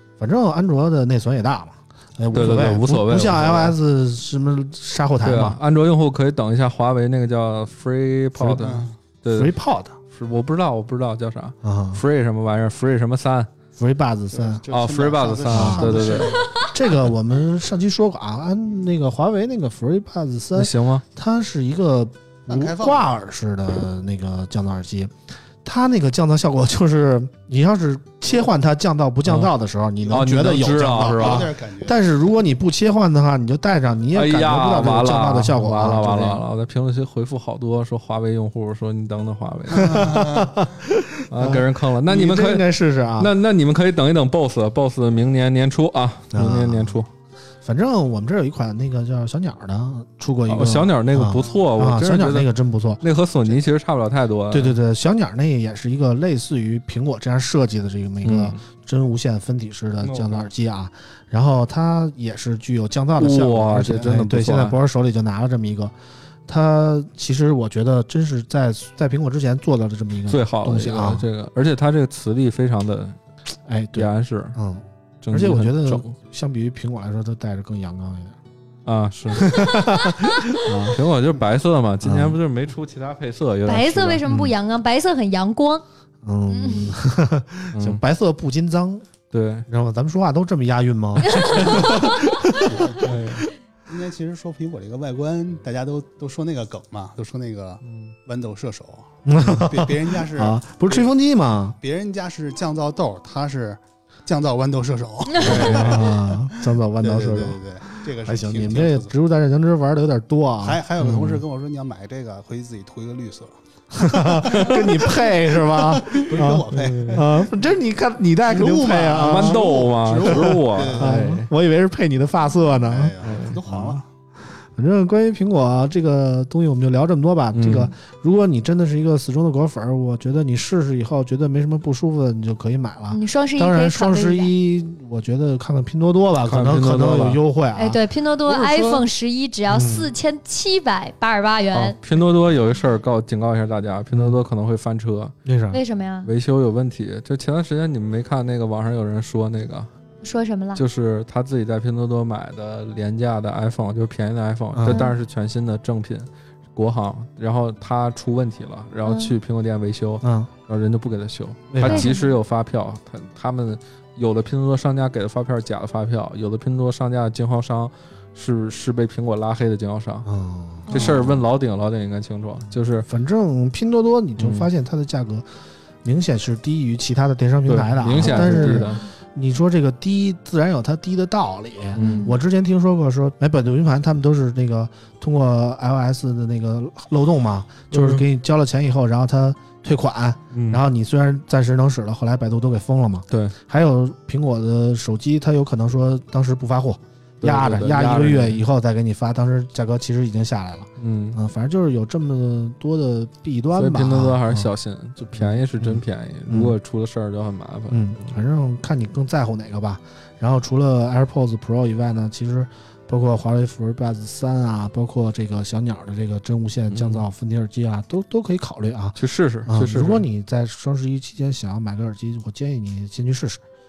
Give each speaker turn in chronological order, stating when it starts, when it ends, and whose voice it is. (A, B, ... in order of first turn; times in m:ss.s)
0:00.2-0:05.6 A
0:02.3-0:03.8 B
0:05.2-0:09.5 B
0:08.4-0:08.7 A
0:08.6-0:08.9 C
0:09.3-0:10.0 A
0:10.1-0:13.5 B
0:11.6-0:12.0 A
0:13.8-0:14.6 A
0:14.3-0:16.6 C
0:14.7-0:16.4 B
0:15.5-0:25.1 A
0:20.6-0:21.0 B
0:22.5-0:23.1 C
0:25.6-0:36.4 A
0:29.3-0:29.5 B
0:30.1-0:32.0 C
0:30.1-0:31.5 B
0:34.1-0:40.2 B
0:39.7-0:40.6 C
0:39.7-0:43.3 A
0:41.3-0:47.1 B
0:46.3-0:47.0 A
0:47.6-0:53.6 A
0:50.5-0:52.5 B
0:53.0-0:54.8 B
0:54.5-1:05.9 A
0:58.2-0:58.6 B
1:00.0-1:00.5 B
1:03.2-1:04.8 B
1:06.5-1:11.3 A
1:10.3-1:13.2 B
1:13.7-1:18.4 A
1:14.0-1:14.6 B
1:15.2-1:16.1 B
1:18.9-1:19.7 B
1:19.3-1:21.0 A
1:19.8-1:20.3 D
1:20.4-1:24.2 B
1:22.0-1:22.4 A
1:23.7-1:25.8 D
1:24.3-1:24.5 A
1:26.2-1:29.1 A
1:26.5-1:26.9 D
1:27.7-1:28.0 B
1:29.3-1:29.7 B
1:29.7-1:32.8 A
1:31.3-1:32.2 D
1:31.3-1:31.6 B
1:32.6-1:33.2 C
1:33.0-1:33.5 B
1:33.9-1:41.1 C
1:37.8-1:38.2 B
1:39.3-1:41.8 A
1:41.8-1:49.1 C
1:45.4-1:46.1 B
1:45.4-1:47.6 A
1:48.2-1:51.4 A
1:50.6-1:57.5 C
1:53.9-2:04.0 A
1:54.5-1:54.8 B
1:56.3-1:57.2 B
1:58.4-2:01.1 C
1:59.2-2:01.5 B
2:02.9-2:04.0 C
2:03.2-2:03.6 B
2:04.8-2:18.0 A
2:07.5-2:07.9 B
2:13.1-2:14.5 D
2:16.4-2:17.4 B
2:17.8-2:22.0 D
2:18.5-2:19.0 B
2:19.7-2:20.1 A
2:21.7-2:25.3 B
2:24.1-2:24.4 A
2:25.4-2:25.8 A
2:25.7-2:26.3 D
2:26.2-2:29.9 B
2:30.2-2:30.8 D
2:30.8-2:50.3 B
2:34.7-2:35.1 A
2:34.9-2:35.2 D
2:39.1-2:39.3 D
2:40.2-2:40.5 A
2:41.7-2:42.1 A
2:41.8-2:42.3 D
2:50.2-2:51.4 A
2:50.9-2:51.2 D
2:50.9-2:53.1 B
2:53.0-2:55.5 A
2:54.4-2:54.7 B
2:56.0-3:24.7 A
2:57.7-2:59.0 B
3:02.0-3:02.3 B
3:02.0-3:02.4 D
3:07.9-3:08.2 B
3:10.5-3:10.8 B
3:17.4-3:18.6 B
3:21.0-3:21.4 B
3:23.7-3:28.4 B
3:25.4-3:26.8 A
3:27.9-3:43.6 A
3:36.9-3:37.2 B
3:39.2-3:40.2 B